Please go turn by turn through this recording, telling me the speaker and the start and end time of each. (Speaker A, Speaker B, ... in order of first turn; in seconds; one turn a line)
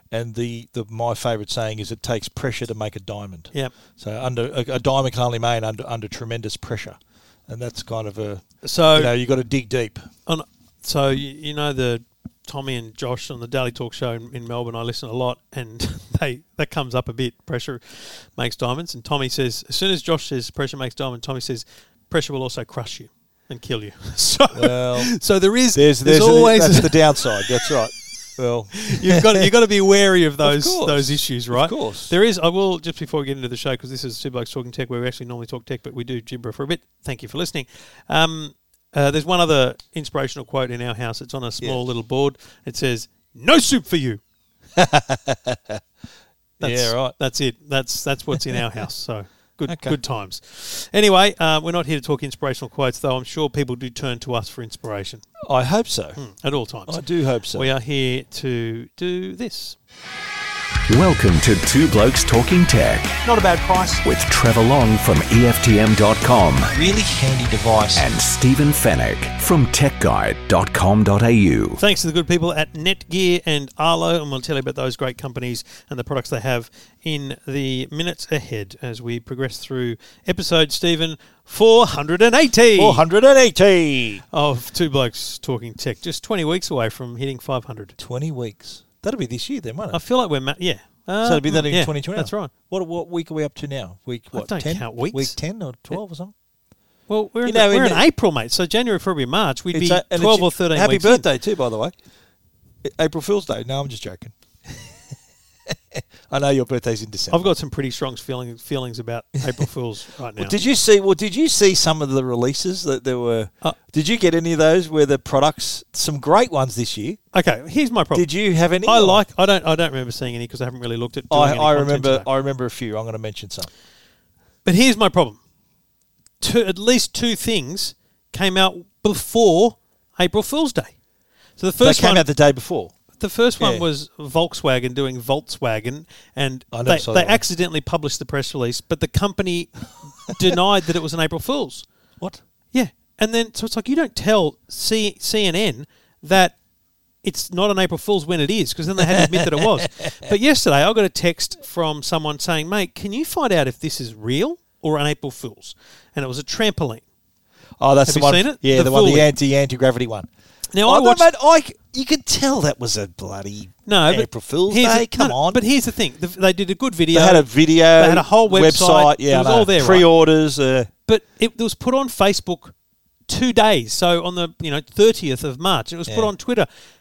Speaker A: 0.1-10.1
Speaker B: 8.6-9.1
Speaker B: 10.3-27.7
Speaker A: 24.5-29.4
Speaker B: 28.8-44.2
Speaker A: 30.4-32.1
Speaker A: 44.8-45.8
Speaker A: 46.6-47.2
Speaker B: 46.6-55.2
Speaker A: 49.7-50.0
Speaker A: 55.5-56.2
Speaker B: 56.2-57.0
Speaker A: 56.9-57.7
Speaker B: 57.5-59.8
Speaker C: 60.9-63.2
Speaker B: 63.2-64.0
Speaker C: 64.0-66.7
Speaker A: 66.7-68.0
Speaker C: 68.0-71.8
Speaker B: 71.8-83.0
Speaker A: 82.8-84.2
Speaker B: 84.3-88.0
Speaker A: 88.0-90.0
Speaker B: 89.9-92.5
Speaker A: 91.2-96.3
Speaker B: 94.3-95.4
Speaker B: 97.1-101.3
Speaker A: 97.5-98.1
Speaker A: 99.7-101.9
Speaker A: 102.8-105.0
Speaker A: 105.7-107.5
Speaker B: 107.3-110.6
Speaker A: 110.4-117.2
Speaker B: 117.3-118.3
Speaker A: 118.1-119.2
Speaker B: 118.8-122.3
Speaker A: 121.3-123.7
Speaker B: 124.7-125.4
Speaker B: 126.4-130.9
Speaker B: 131.6-132.3
Speaker A: 131.8-132.9
Speaker B: 133.2-141.9
Speaker A: 133.6-133.8
Speaker A: 136.7-137.4
Speaker B: 142.7-146.6
Speaker B: 147.2-157.0
Speaker A: 149.0-150.3
Speaker A: 157.8-160.3
Speaker B: 158.1-159.3
Speaker B: 160.7-161.3
Speaker A: 160.8-165.6
Speaker B: 163.9-170.1
Speaker A: 167.1-170.9
Speaker B: 171.1-172.7
Speaker B: 173.3-176.7
Speaker A: 176.1-176.3